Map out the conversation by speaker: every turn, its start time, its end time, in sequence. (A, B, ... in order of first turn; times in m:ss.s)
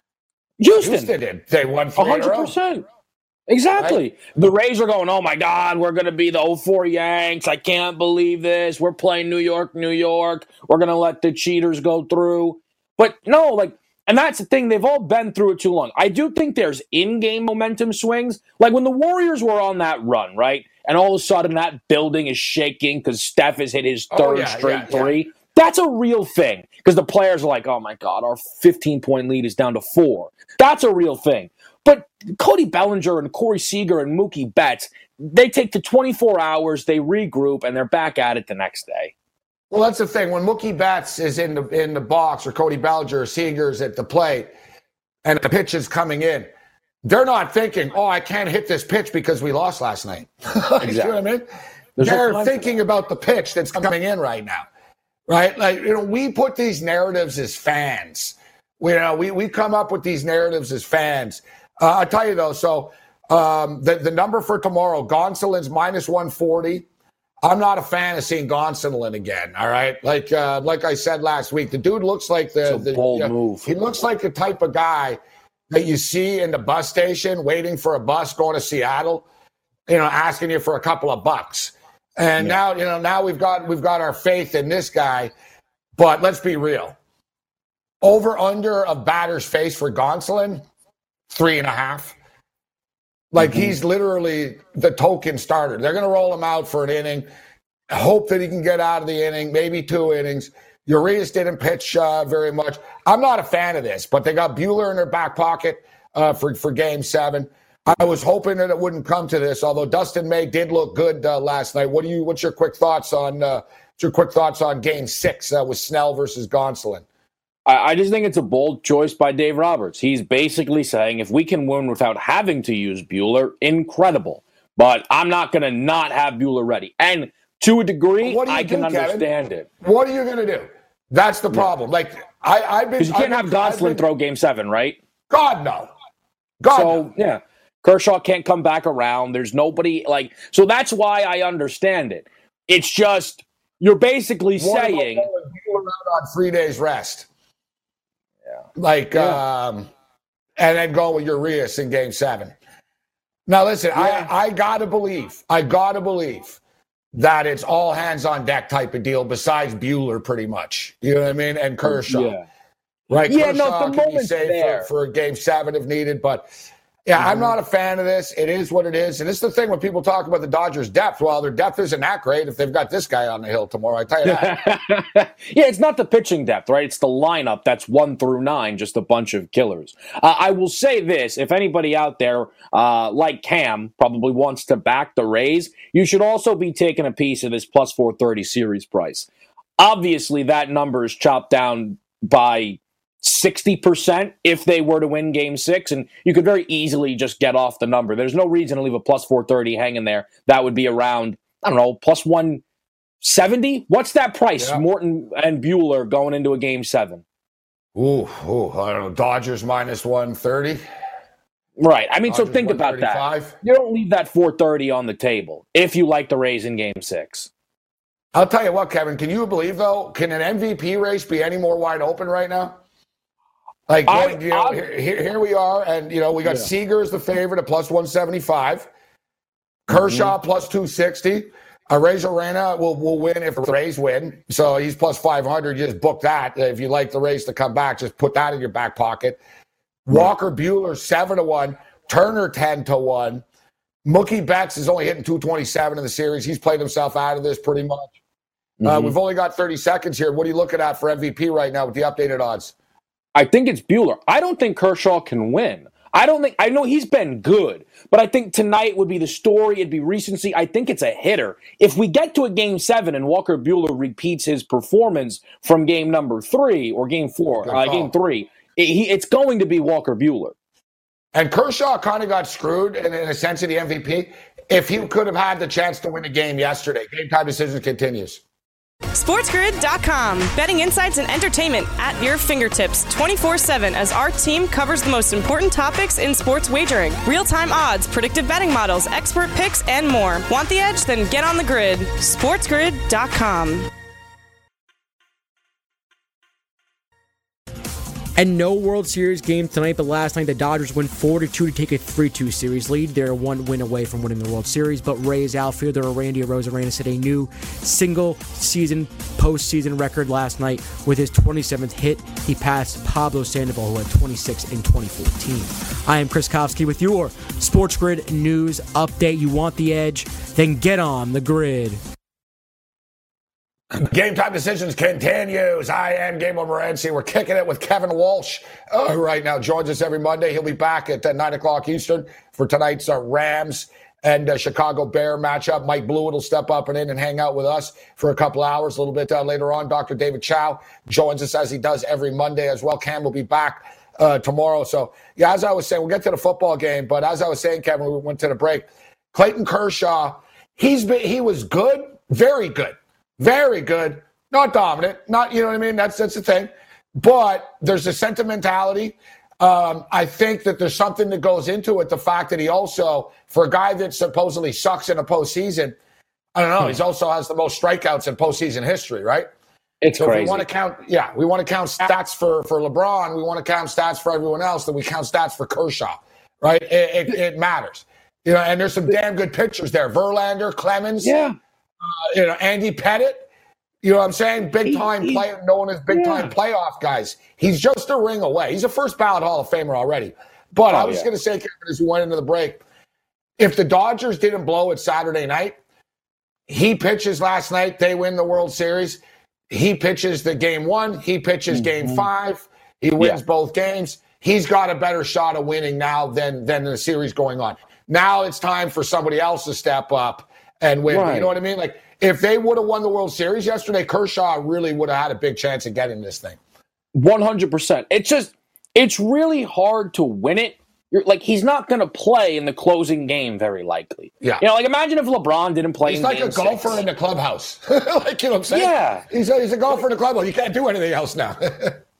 0:00.6-0:01.1 A
0:00.8-0:02.5 B
0:02.0-0:02.8 A
0:03.5-0:39.1 A
0:03.7-0:04.0 B
0:24.1-0:25.1 B
0:39.7-0:44.5 B
0:45.2-0:46.5 B
0:47.0-0:51.4 B
0:50.8-0:51.1 A
0:52.0-0:52.8 A
0:52.0-0:54.7 B
0:55.3-1:06.8 B
1:07.4-1:15.2 B
1:12.7-1:13.7 A
1:15.7-1:19.2 B
1:19.9-1:25.3 B
1:26.0-1:27.0 B
1:28.0-1:30.6 B
1:31.3-1:32.2 B
1:33.3-1:37.2 B
1:33.4-1:33.7 A
1:37.9-1:57.0 B
1:57.6-2:09.7 A
2:08.2-2:09.2 B
2:09.8-2:14.0 B
2:13.0-2:15.0 A
2:15.3-2:15.9 B
2:16.6-2:17.1 B
2:16.7-2:25.3 A
2:24.6-2:27.3 B
2:28.8-2:29.9 B
2:29.1-2:29.4 A
2:30.6-2:32.5 B
2:33.5-2:36.6 B
2:33.9-2:34.3 A
2:37.1-2:42.3 B
2:41.8-2:42.4 A
2:43.1-2:46.5 B
2:43.1-2:44.9 A
2:47.0-2:54.6 B
2:47.2-2:47.5 A
2:54.2-3:09.3 A
3:09.8-3:22.6 A
3:23.2-3:27.2 A
3:24.6-3:24.8 B
3:27.9-3:30.8 B
3:31.8-3:37.5 A
3:32.3-3:33.5 B
3:38.3-3:42.8 B
3:43.9-3:48.9 B
3:44.1-3:44.8 A
3:49.9-3:59.4 B
3:49.9-3:50.3 A
4:00.1-4:03.4 B
4:04.0-4:08.1 B
4:08.8-4:09.1 A
4:08.8-4:12.7 B
4:13.3-4:30.5 A
4:27.6-4:28.1 B
4:31.3-4:38.4 B
4:39.1-4:53.9 C
4:58.4-5:22.0 D
5:23.9-5:56.7 B
5:57.2-6:06.0 B
6:06.6-6:09.5 B
6:10.0-6:10.6 A
6:10.2-6:21.3 B
6:21.2-6:21.5 A
6:22.0-6:23.5 B
6:24.0-6:32.8 B
6:24.8-6:25.4 A
6:26.1-6:26.5 A
6:30.9-6:31.3 A
6:33.6-6:35.8 B
6:36.7-6:56.6 B
6:41.7-6:42.3 A
6:51.1-6:51.5 A
6:57.1-7:07.0 A
7:06.0-7:12.0 B
7:08.7-7:09.2 A